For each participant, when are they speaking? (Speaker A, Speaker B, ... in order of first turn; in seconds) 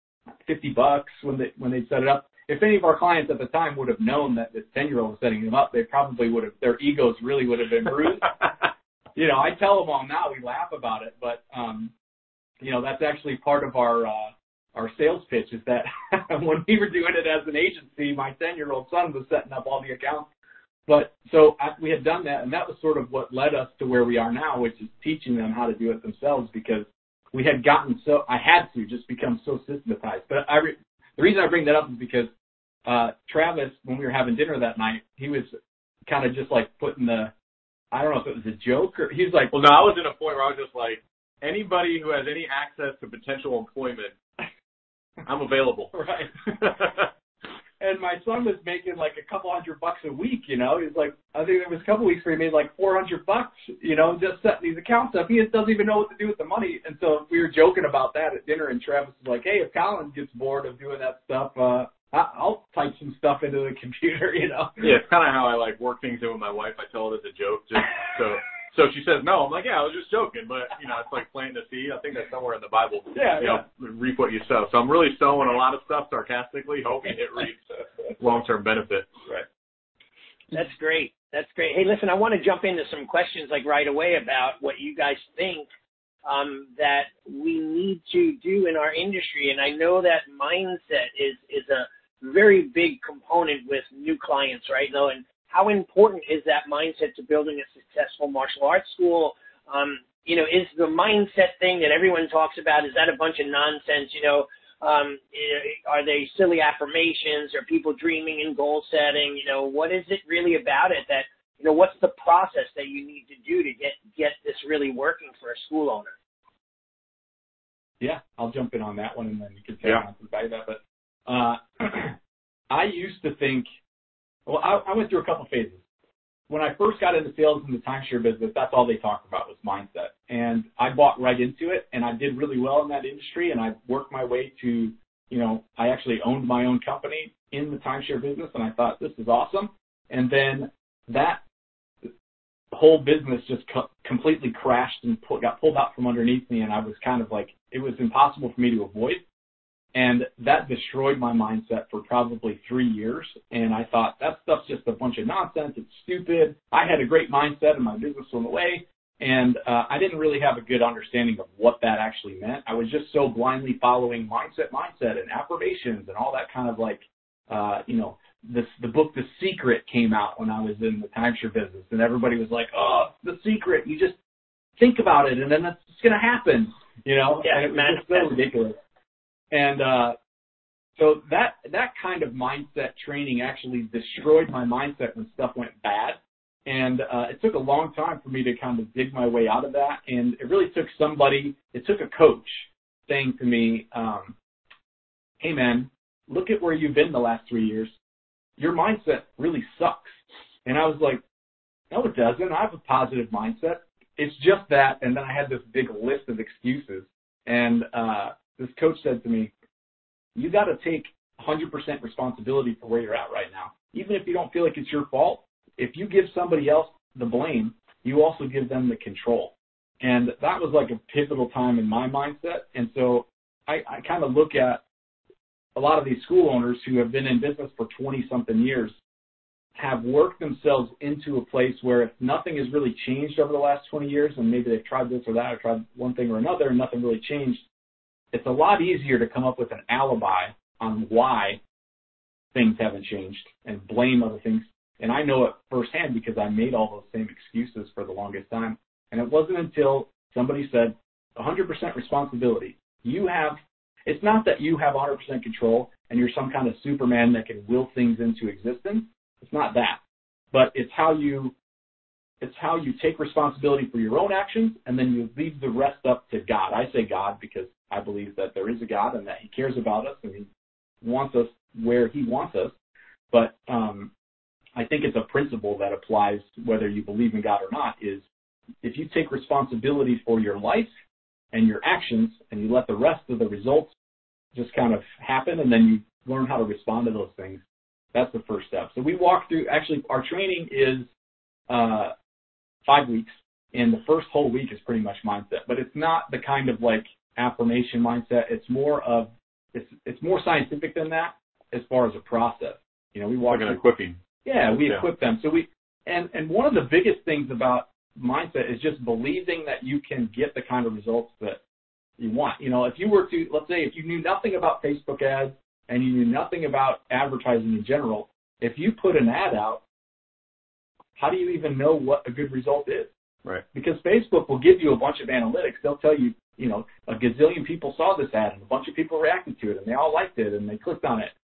Speaker A: 0.4-8.3, 9.2-11.9, 12.6-20.3, 20.9-32.3, 32.9-35.5, 36.1-37.3, 37.9-39.5, 45.9-46.3, 47.8-64.9, 73.1-73.6, 118.0-122.2, 122.7-123.7, 124.5-125.8, 126.5-141.4, 142.7-149.2, 149.9-174.1, 174.8-178.8, 179.5-180.2, 181.0-194.3, 195.4-197.9, 198.6-200.1, 200.7-201.2, 201.9-209.5, 210.3-224.8, 225.8-228.9, 229.8-237.6, 238.3-241.6, 242.5-260.0, 260.5-261.5, 262.4-270.5, 271.0-272.7, 273.3-274.1, 274.8-278.2, 278.8-280.9, 281.5-283.9, 284.5-287.6, 288.1-291.1, 291.7-292.1, 292.9-303.8, 304.4-311.6, 312.2-319.8, 321.2-323.1, 323.7-331.3
Speaker B: 39.5-44.1, 45.2-45.9, 46.5-47.1, 64.8-77.6, 78.2-79.2, 303.5-304.2, 304.8-305.0
Speaker C: 80.5-85.6, 86.2-116.1, 177.4-178.3